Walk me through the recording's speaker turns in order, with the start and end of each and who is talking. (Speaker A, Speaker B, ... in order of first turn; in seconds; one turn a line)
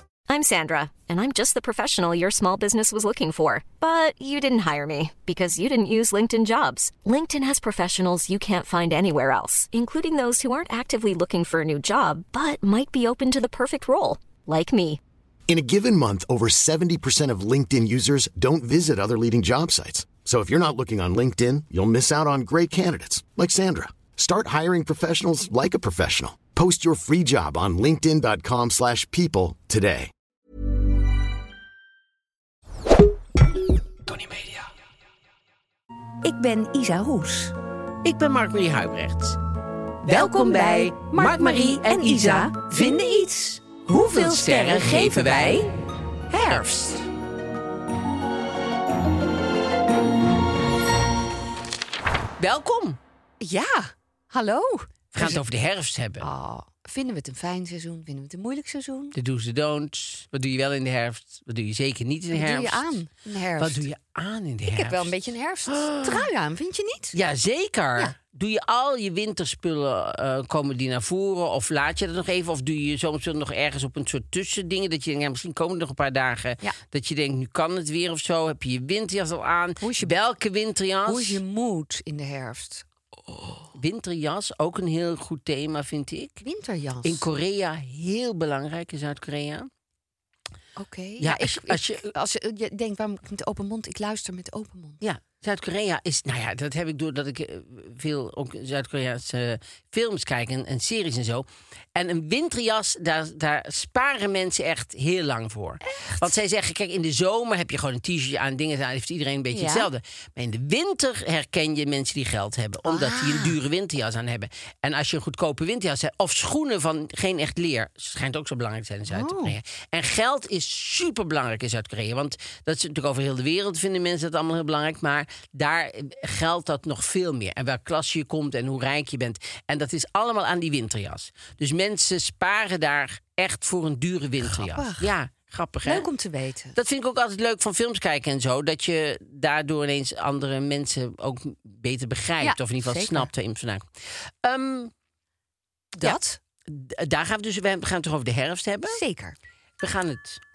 Speaker A: 0.3-15.0
Speaker B: 15.5-30.1
Speaker C: 34.1-34.6
Speaker D: 36.2-37.5
Speaker C: 38.0-39.4
Speaker C: 40.0-43.1
Speaker D: 40.1-45.7
Speaker C: 43.9-45.7
Speaker D: 46.3-46.6
Speaker C: 46.3-47.0
Speaker C: 52.4-53.0
Speaker D: 53.4-55.4
Speaker C: 55.1-56.3
Speaker D: 56.2-59.1
Speaker C: 59.1-63.0
Speaker D: 62.3-63.8
Speaker C: 63.6-65.1
Speaker D: 64.7-67.2
Speaker C: 65.7-66.3
Speaker C: 67.1-81.4
Speaker D: 79.8-80.2
Speaker D: 81.1-82.8
Speaker C: 83.8-86.4
Speaker D: 86.4-87.2
Speaker C: 87.0-89.7
Speaker D: 90.8-95.0
Speaker C: 91.2-92.1
Speaker C: 95.0-136.1
Speaker D: 105.8-106.3
Speaker D: 109.5-109.9
Speaker D: 112.8-113.6
Speaker D: 119.1-119.6
Speaker D: 134.4-135.1
Speaker D: 135.8-136.8
Speaker C: 136.8-144.9
Speaker D: 142.4-143.3
Speaker D: 146.0-146.4
Speaker C: 146.0-149.0
Speaker D: 148.9-149.4
Speaker C: 149.8-150.4